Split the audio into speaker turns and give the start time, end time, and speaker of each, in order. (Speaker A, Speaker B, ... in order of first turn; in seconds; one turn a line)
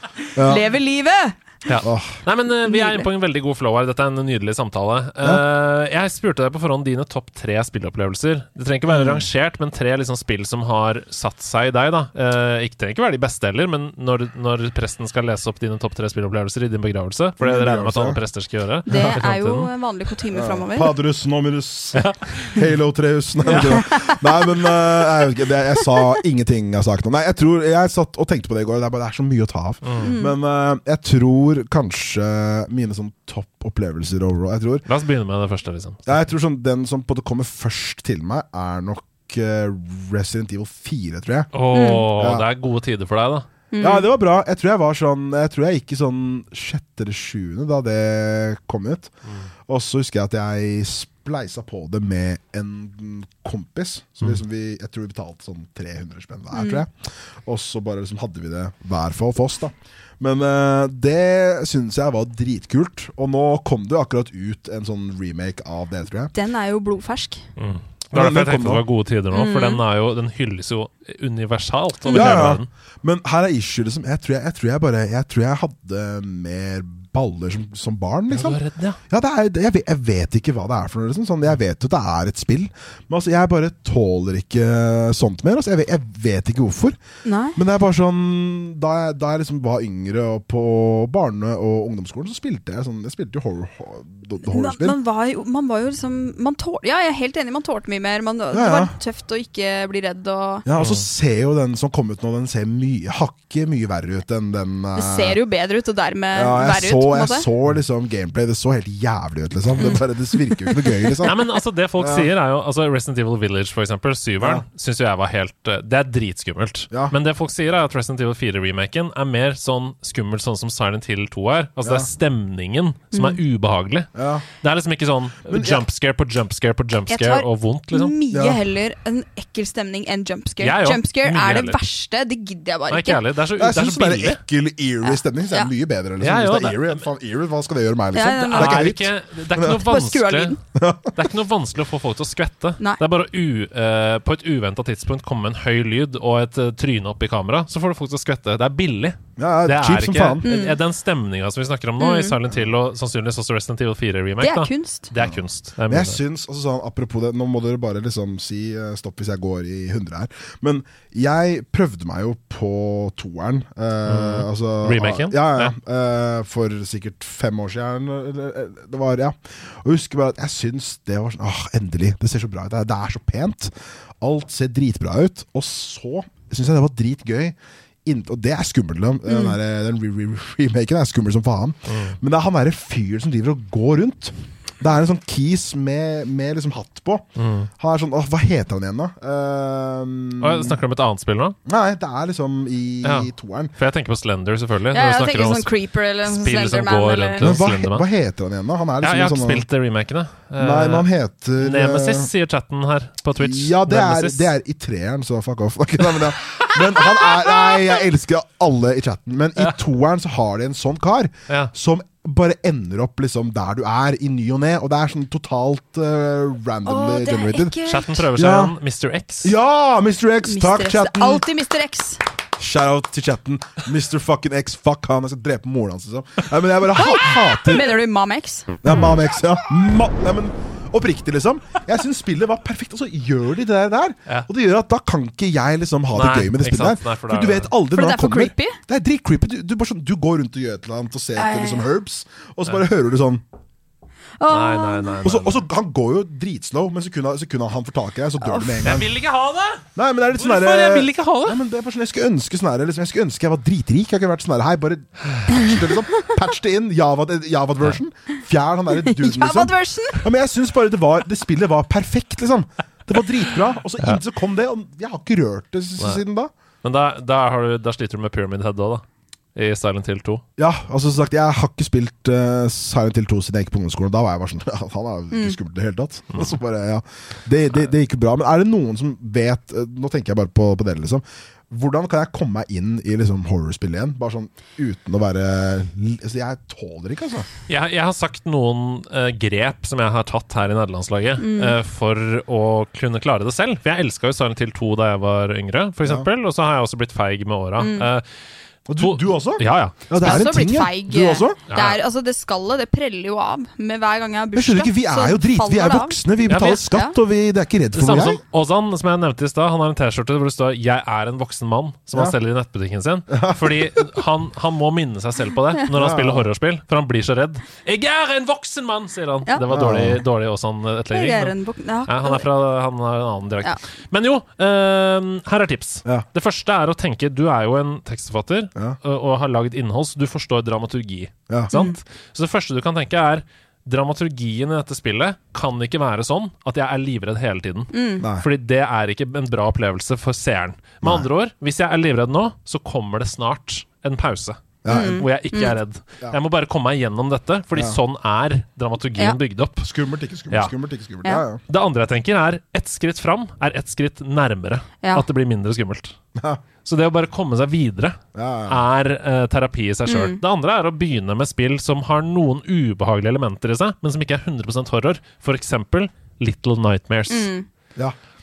Speaker A: 0.3-0.6
Speaker B: 0.4-1.4
Speaker C: 1.6-19.7
Speaker A: 1.8-2.2
Speaker B: 2.6-3.1
Speaker A: 8.9-9.2
Speaker A: 17.4-18.2
Speaker B: 18.9-20.9
Speaker A: 20.3-34.9
Speaker C: 21.9-22.6
Speaker B: 23.5-24.4
Speaker C: 29.8-30.1
Speaker B: 30.0-30.4
Speaker C: 34.9-36.2
Speaker A: 36.0-41.5
Speaker C: 41.5-43.5
Speaker B: 41.7-42.0
Speaker A: 42.1-42.5
Speaker B: 43.7-44.0
Speaker A: 43.8-49.1
Speaker A: 49.6-56.9
Speaker B: 56.5-56.8
Speaker A: 57.4-66.3
Speaker B: 66.3-67.4
Speaker C: 67.6-72.7
Speaker A: 68.1-68.8
Speaker B: 69.3-69.8
Speaker B: 72.0-72.4
Speaker A: 72.1-87.0
Speaker C: 78.3-79.0
Speaker B: 87.2-87.6
Speaker A: 87.5-95.0
Speaker B: 94.5-100.7
Speaker A: 98.5-98.9
Speaker A: 100.7-105.4
Speaker C: 100.8-101.0
Speaker B: 105.0-107.5
Speaker A: 106.3-111.3
Speaker B: 109.8-111.4
Speaker C: 111.2-128.1
Speaker A: 112.0-112.3
Speaker A: 114.4-114.6
Speaker A: 121.8-122.1
Speaker B: 123.1-123.4
Speaker A: 124.1-124.4
Speaker A: 125.5-125.8
Speaker B: 127.1-133.2
Speaker A: 128.3-128.6
Speaker C: 130.6-131.8
Speaker C: 132.9-134.4
Speaker A: 133.6-139.8
Speaker B: 135.0-135.7
Speaker C: 136.2-137.0
Speaker B: 138.1-138.9
Speaker C: 138.5-140.6
Speaker B: 139.7-140.6
Speaker A: 140.7-141.2
Speaker C: 141.1-156.2
Speaker A: 149.4-150.5
Speaker B: 150.4-150.8
Speaker B: 152.0-152.3
Speaker B: 154.4-155.1
Speaker A: 155.2-187.2
Speaker C: 164.1-165.7
Speaker B: 179.3-179.6
Speaker C: 181.9-182.2
Speaker C: 187.4-187.7
Speaker A: 187.8-190.8
Speaker C: 190.4-191.6
Speaker A: 191.7-193.7
Speaker C: 193.0-195.7
Speaker B: 194.9-197.6
Speaker C: 196.2-198.1
Speaker A: 197.4-199.6
Speaker C: 199.0-204.5
Speaker A: 200.6-202.3
Speaker A: 203.4-217.8
Speaker B: 216.8-218.1
Speaker C: 217.8-219.5
Speaker A: 218.3-218.7
Speaker A: 219.4-221.4
Speaker B: 220.4-222.2
Speaker A: 222.6-227.9
Speaker B: 226.9-228.8
Speaker A: 228.8-243.4
Speaker C: 236.1-237.7
Speaker B: 237.9-238.8
Speaker B: 241.3-241.9
Speaker B: 244.4-245.2
Speaker C: 244.5-245.6
Speaker A: 245.2-249.1
Speaker B: 248.4-249.0
Speaker C: 248.8-251.6
Speaker A: 249.9-266.5
Speaker B: 258.9-260.2
Speaker C: 266.8-269.0
Speaker C: 269.6-270.4
Speaker A: 270.6-287.5
Speaker B: 275.3-275.6
Speaker C: 276.3-276.6
Speaker C: 287.7-298.2
Speaker B: 291.4-291.8
Speaker B: 297.8-298.1
Speaker A: 298.9-301.6
Speaker C: 299.0-300.0
Speaker B: 300.2-307.1
Speaker C: 301.7-302.0
Speaker A: 304.5-308.4
Speaker C: 306.5-306.8
Speaker C: 307.9-321.5
Speaker A: 313.3-314.1
Speaker A: 315.9-316.5
Speaker A: 319.7-320.2
Speaker B: 321.1-322.4
Speaker C: 322.1-349.9
Speaker B: 331.7-332.0
Speaker B: 337.9-338.3
Speaker A: 338.2-338.5
Speaker A: 341.0-341.3
Speaker A: 344.8-345.2
Speaker B: 344.9-345.8
Speaker A: 347.7-348.0
Speaker A: 349.8-351.6
Speaker C: 351.7-356.1
Speaker A: 356.4-356.6
Speaker C: 356.8-367.5
Speaker A: 358.3-358.8
Speaker B: 360.1-360.4
Speaker B: 367.3-367.6